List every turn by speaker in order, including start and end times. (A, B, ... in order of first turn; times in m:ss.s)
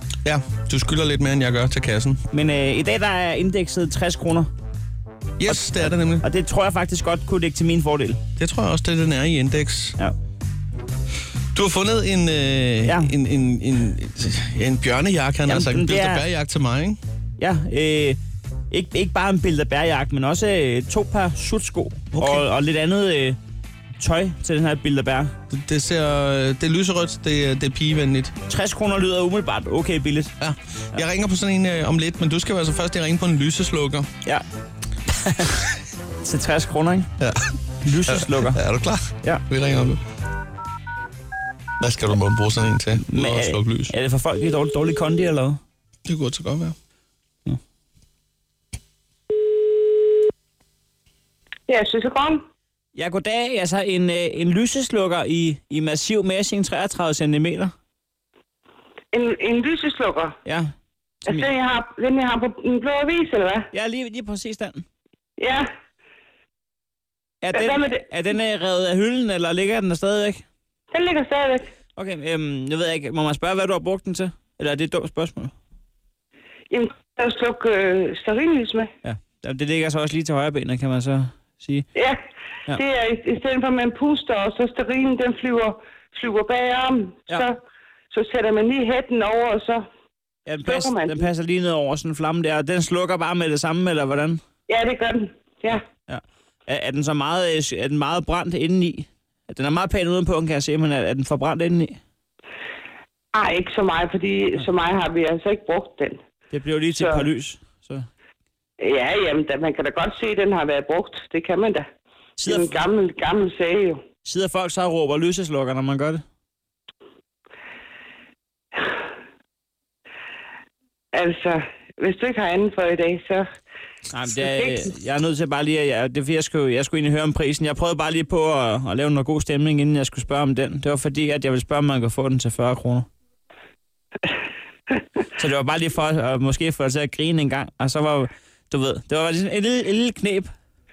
0:00.2-0:02.2 A
0:02.3-0:04.5 B
0:05.4-0:06.2 A
0:05.5-0:08.2 B
0:08.4-0:10.0 A
0:11.5-0:17.0 A
0:12.8-0:13.1 B
0:15.4-0:16.2 B
0:17.4-0:18.2 B
0:18.7-0:23.4 B
0:22.1-0:22.4 A
0:24.0-0:25.3 B
0:25.5-0:28.3 A
0:28.5-0:30.3 B
0:30.4-0:34.1 A
0:36.2-0:37.1 B
0:37.8-0:38.6 B
0:38.0-0:40.0 A
0:41.8-0:43.9 A
0:43.0-0:45.6 B
0:46.0-0:46.7 A
0:51.7-0:52.4 C
0:52.9-0:57.7 B
0:59.1-1:00.3 C
1:00.4-1:00.7 B
1:01.3-1:03.6 C
1:03.7-1:04.8 B
1:05.4-1:05.6 C
1:07.4-1:10.4 B
1:07.5-1:07.9 C
1:10.9-1:11.7 C
1:12.0-1:15.5 B
1:16.7-1:18.9 C
1:19.0-1:21.9 B
1:21.9-1:22.2 C
1:22.7-1:27.6 C
1:28.1-1:29.8 C
1:30.4-1:34.4 B
1:30.6-1:31.2 C
1:34.7-1:35.8 C
1:36.1-1:42.0 B
1:43.3-1:46.2 C
1:46.5-1:48.1 B
1:47.0-1:47.2 C
1:48.8-1:51.8 C
1:52.4-1:52.8 B
1:52.4-1:54.0 C
1:54.2-1:56.2 B
2:01.1-2:03.4 C
2:04.1-2:13.1 B
2:04.3-2:04.8 C
2:15.3-2:20.5 B